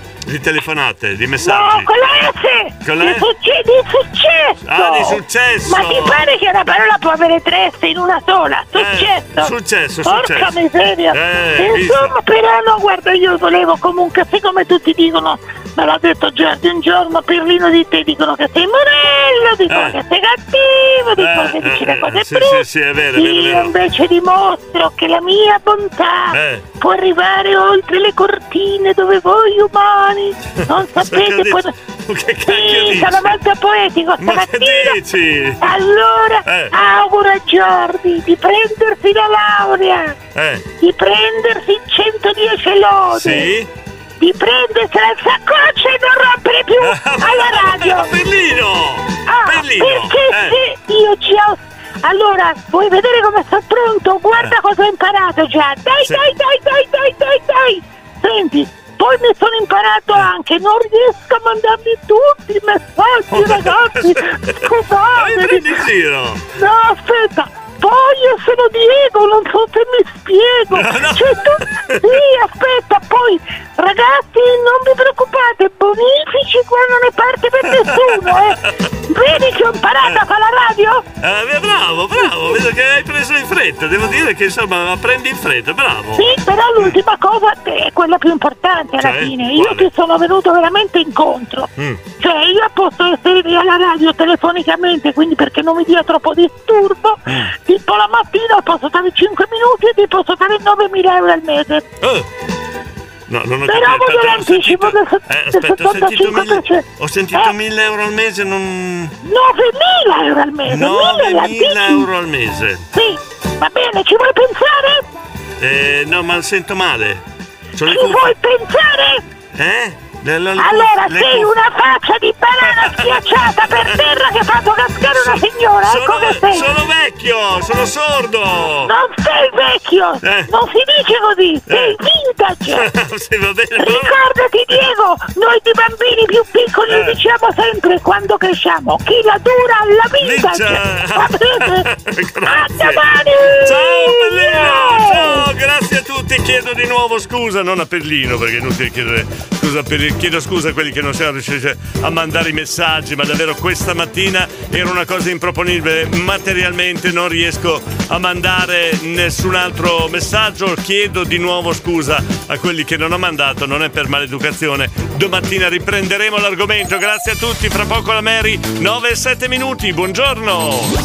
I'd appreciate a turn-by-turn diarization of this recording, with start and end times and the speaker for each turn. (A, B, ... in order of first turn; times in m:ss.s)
0:00.3-0:01.9 A
0:01.4-0:09.5 B
0:02.8-0:03.3 A
0:04.6-0:06.3 A
0:08.8-0:10.5 A
0:10.0-0:22.6 B
0:11.1-0:12.1 A
0:19.7-0:20.0 A
0:21.2-0:23.7 A
0:23.2-0:31.7 B
0:26.3-0:26.6 A
0:31.0-0:33.4 A
0:32.5-0:35.0 B
0:34.2-0:35.6 A
0:35.6-0:40.2 B
0:36.5-0:36.7 A
0:40.4-0:40.6 A
0:40.8-0:43.5 B
0:43.1-0:43.7 A
0:44.2-0:48.1 B
0:46.8-0:50.6 A
0:49.3-1:05.8 B
1:03.3-1:04.2 A
1:05.2-1:06.4 A
1:06.6-1:18.6 B
1:10.7-1:12.1 A
1:17.8-1:18.7 A
1:19.1-1:21.0 B
1:21.2-1:26.3 A
1:26.2-1:31.7 B
1:29.0-1:29.9 A
1:32.2-1:41.8 B
1:42.0-1:42.3 A
1:43.3-1:49.1 A
1:43.7-1:47.5 B
1:49.2-1:52.1 B
1:50.7-1:52.8 A
1:52.9-1:55.0 B
1:55.6-1:57.2 A
1:57.8-1:58.4 A
1:57.9-1:59.2 B
1:59.6-2:01.5 A
2:00.6-2:06.7 B
2:02.6-2:03.3 A
2:05.1-2:08.9 A
2:08.9-2:12.8 B
2:10.2-2:10.5 A
2:11.7-2:12.0 A
2:12.7-2:14.2 A
2:13.8-2:21.8 B
2:16.9-2:17.2 A
2:20.2-2:23.1 A
2:22.5-2:25.4 B
2:23.6-2:51.0 A